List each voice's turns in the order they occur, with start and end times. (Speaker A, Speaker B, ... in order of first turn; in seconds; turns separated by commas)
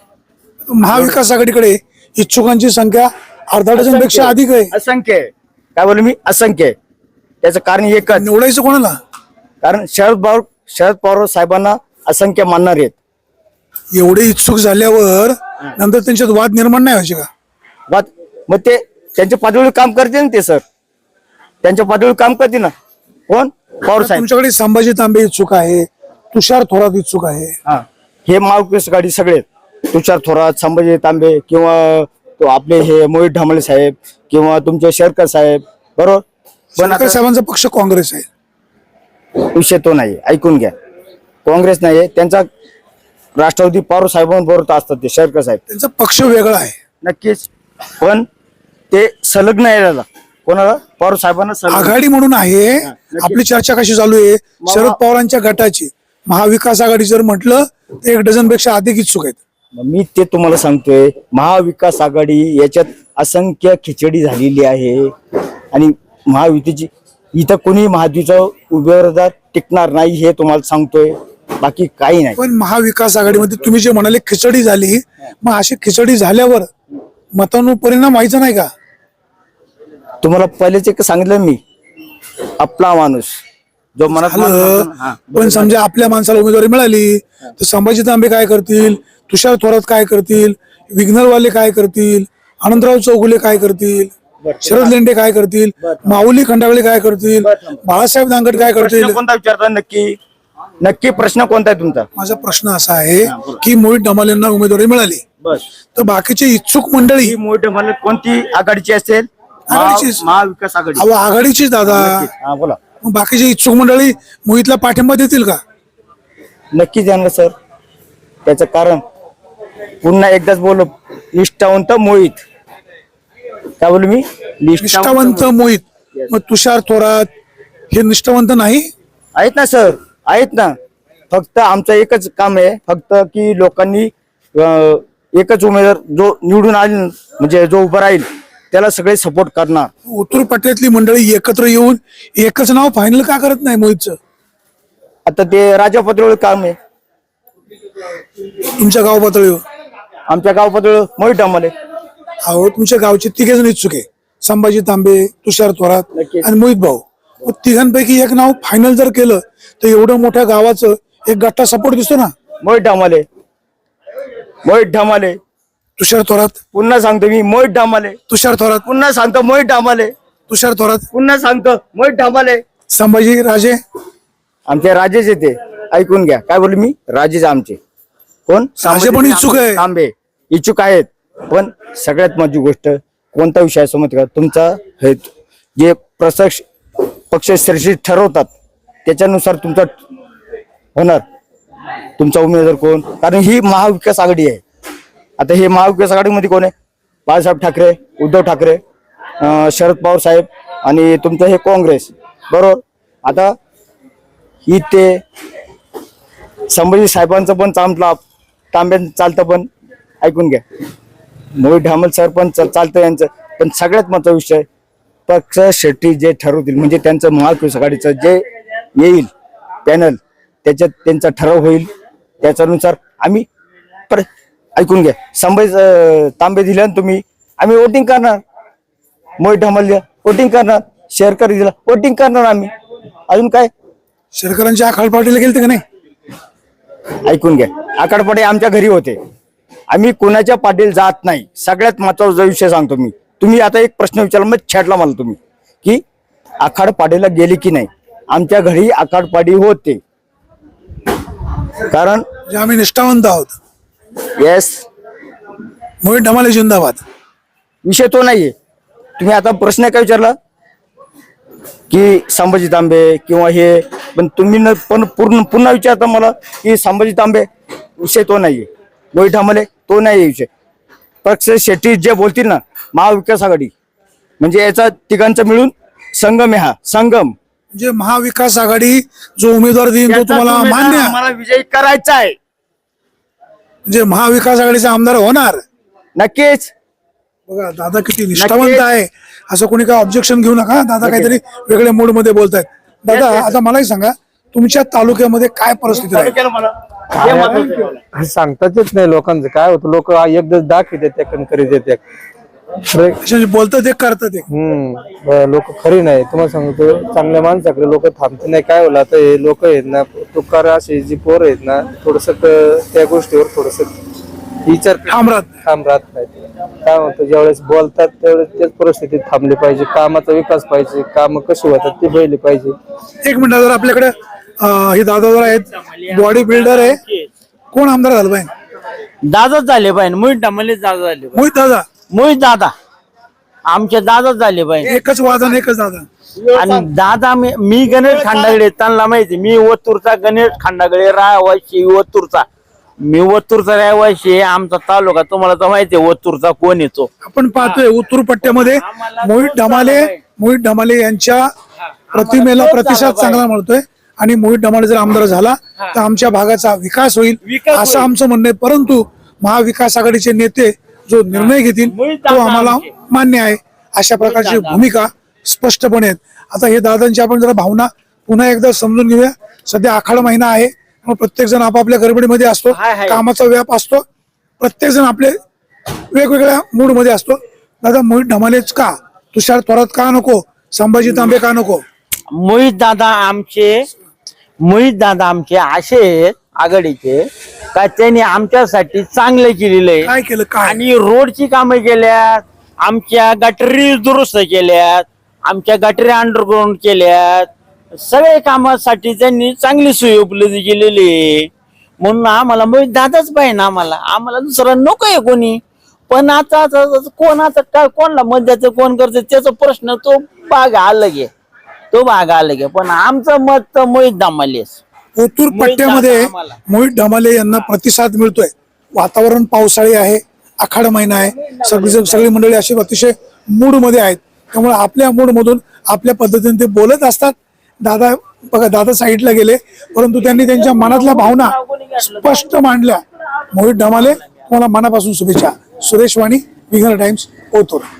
Speaker A: 0.7-4.7, Speaker B: 0.9-1.2, Speaker B: 3.7-6.7, Speaker B: 7.4-8.3, Speaker A: 8.1-8.9, Speaker B: 9.6-12.9, Speaker A: 13.9-17.3, Speaker B: 17.9-20.6, Speaker B: 21.6-22.7, Speaker B: 23.3-24.2, Speaker A: 24.0-27.6, Speaker B: 27.6-36.2, Speaker A: 36.8-38.2, Speaker B: 36.8-37.2, Speaker B: 39.4-40.7, Speaker B: 41.4-42.4, Speaker B: 43.4-45.6, Speaker A: 45.7-46.8, Speaker B: 47.0-48.2, Speaker B: 48.9-51.9, Speaker A: 51.7-59.4, Speaker B: 52.8-53.4, Speaker B: 54.6-55.0, Speaker B: 59.7-65.1, Speaker B: 65.7-72.4, Speaker A: 72.4-76.7, Speaker A: 77.3-78.7, Speaker B: 80.2-81.6, Speaker B: 82.6-83.4, Speaker B: 84.0-85.8, Speaker A: 84.1-94.1, Speaker B: 94.4-94.9, Speaker A: 94.6-99.2, Speaker B: 95.8-96.2, Speaker B: 97.4-97.8, Speaker B: 98.5-100.2, Speaker B: 100.8-102.1, Speaker A: 102.2-105.2, Speaker B: 103.3-103.6, Speaker A: 105.9-107.4, Speaker B: 107.2-111.0, Speaker A: 109.7-110.2, Speaker A: 111.0-112.2, Speaker B: 111.8-112.8, Speaker A: 113.0-115.6, Speaker B: 116.7-117.5, Speaker B: 118.4-119.0, Speaker B: 120.0-122.4, Speaker B: 123.8-125.5, Speaker A: 124.8-127.3, Speaker A: 127.9-128.9, Speaker B: 129.3-130.7, Speaker B: 131.3-139.9, Speaker A: 140.1-144.2, Speaker B: 145.2-146.8, Speaker A: 148.8-149.6, Speaker B: 150.3-151.7, Speaker A: 152.4-162.3, Speaker B: 156.1-156.5, Speaker B: 162.6-163.2, Speaker B: 164.6-165.4, Speaker A: 166.0-166.6, Speaker B: 166.7-168.2, Speaker A: 168.3-168.8, Speaker B: 168.8-170.1, Speaker A: 170.5-171.1, Speaker B: 171.1-172.6, Speaker A: 172.9-173.8, Speaker B: 174.7-177.8, Speaker B: 178.5-186.6, Speaker A: 178.8-179.8, Speaker B: 187.3-188.5, Speaker B: 189.1-189.9, Speaker B: 190.9-191.2, Speaker B: 192.2-194.6, Speaker B: 195.4-196.7, Speaker B: 197.3-198.8, Speaker B: 199.4-203.5, Speaker B: 204.7-205.2, Speaker B: 206.7-208.2, Speaker B: 208.7-209.7, Speaker B: 210.2-210.6, Speaker B: 211.6-214.6, Speaker B: 215.3-218.4, Speaker B: 218.9-219.3, Speaker B: 219.8-221.9, Speaker B: 222.4-223.4, Speaker B: 224.8-228.4, Speaker B: 229.4-232.7, Speaker B: 233.3-233.7, Speaker A: 234.3-235.8, Speaker B: 237.2-239.2, Speaker B: 239.9-246.0, Speaker B: 246.6-250.0, Speaker B: 251.9-252.2, Speaker A: 252.5-253.6, Speaker B: 254.4-254.8, Speaker A: 256.0-257.0, Speaker B: 257.8-258.5, Speaker B: 259.2-260.3, Speaker B: 261.9-267.5, Speaker B: 268.0-270.5, Speaker B: 271.2-273.7, Speaker B: 274.4-277.3, Speaker A: 277.7-281.1, Speaker B: 280.1-282.4, Speaker A: 283.9-285.6, Speaker B: 286.1-286.7, Speaker A: 287.5-296.3, Speaker B: 288.4-288.9, Speaker B: 291.0-291.3, Speaker B: 293.1-293.6, Speaker B: 295.9-298.0, Speaker A: 297.1-297.7, Speaker C: 297.2-302.0, Speaker C: 302.8-303.2, Speaker A: 303.2-304.5, Speaker C: 304.5-313.9, Speaker C: 314.6-322.7, Speaker A: 315.1-315.5, Speaker A: 323.2-327.0, Speaker D: 326.1-327.3, Speaker A: 327.7-328.5, Speaker D: 329.2-331.4, Speaker A: 331.3-331.9, Speaker D: 332.1-332.7, Speaker D: 333.7-334.9, Speaker A: 334.8-336.1, Speaker B: 336.4-336.9, Speaker D: 336.5-342.4, Speaker B: 338.0-338.6, Speaker D: 343.0-347.1, Speaker A: 347.2-351.5, Speaker D: 348.4-350.2, Speaker A: 352.1-374.0, Speaker D: 352.1-353.4, Speaker D: 357.4-358.1, Speaker D: 361.3-362.9, Speaker D: 364.2-364.8, Speaker D: 372.7-373.2, Speaker A: 374.6-375.4, Speaker A: 376.1-381.8, Speaker D: 382.3-383.8, Speaker D: 384.6-390.1, Speaker A: 390.0-390.8, Speaker D: 390.6-401.5, Speaker D: 402.0-411.3, Speaker D: 411.9-414.8, Speaker A: 415.1-437.9, Speaker D: 415.5-416.6, Speaker D: 421.4-422.3, Speaker D: 430.3-432.5, Speaker D: 433.8-434.4